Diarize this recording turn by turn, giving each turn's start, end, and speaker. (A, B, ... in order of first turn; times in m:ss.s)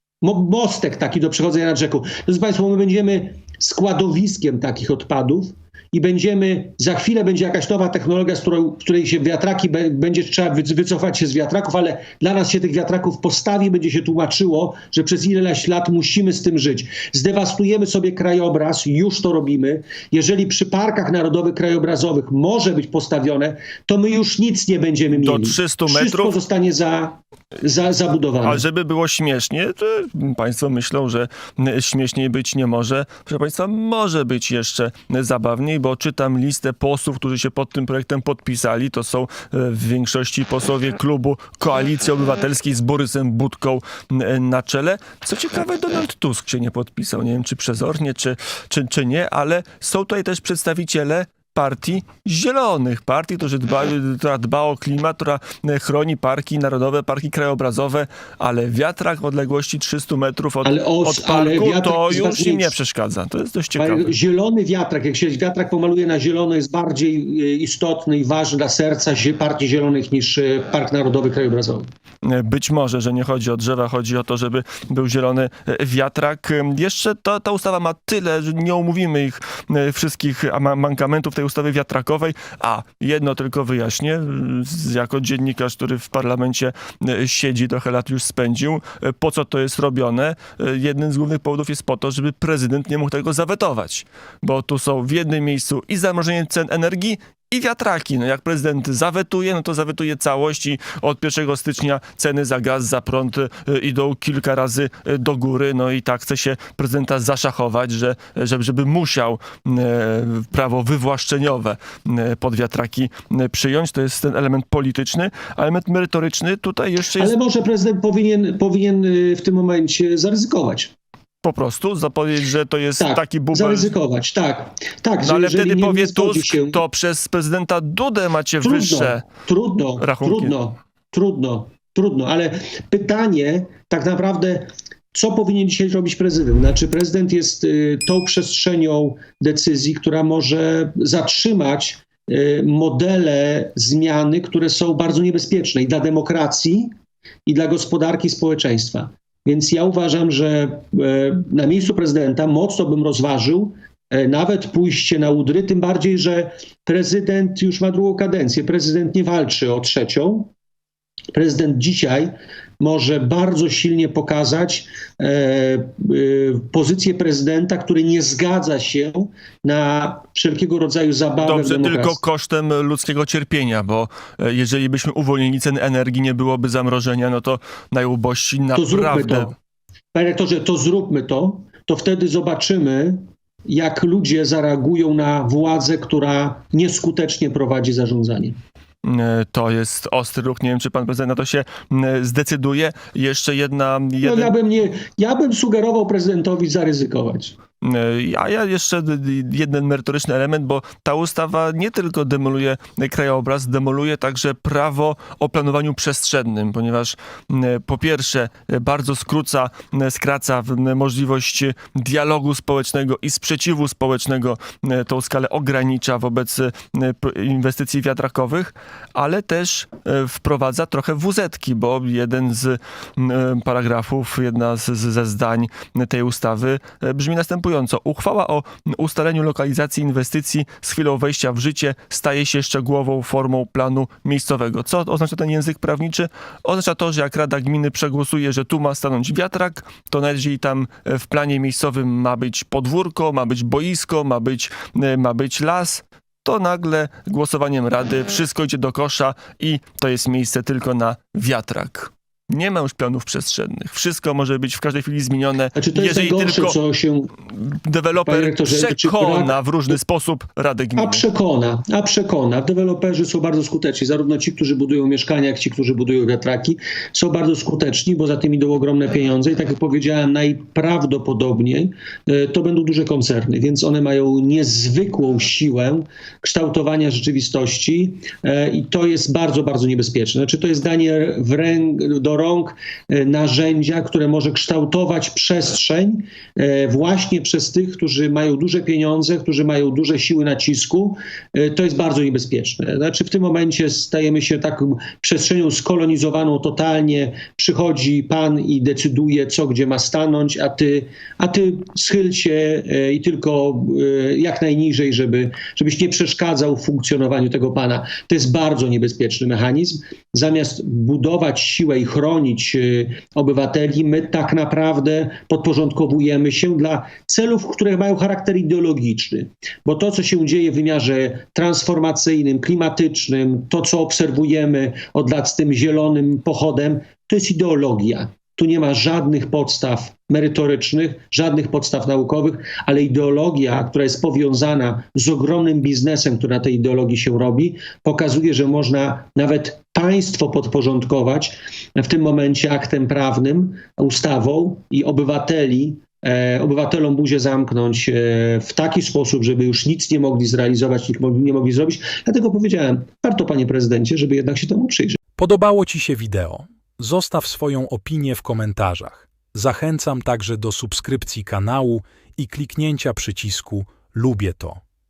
0:00.2-0:28.6 A
0:25.1-0:26.4 B
0:28.4-1:04.1 B
1:00.6-1:02.8 A
1:03.8-1:11.9 A
1:12.2-1:57.3 B
1:57.2-2:00.9 A
2:01.4-2:03.9 B
2:03.0-2:06.8 A
2:05.2-2:09.3 B
2:08.6-2:26.9 A
2:10.0-2:10.6 B
2:27.5-2:40.5 A
2:41.3-2:52.2 A
2:51.4-2:59.6 B
2:58.7-2:59.5 A
3:00.1-3:08.6 A
3:09.0-3:14.5 B
3:14.2-3:17.5 A
3:17.8-4:16.8 B
4:15.8-4:17.3 A
4:17.5-4:21.2 B
4:18.2-4:20.0 A
4:21.0-5:55.2 A
5:55.4-6:04.8 C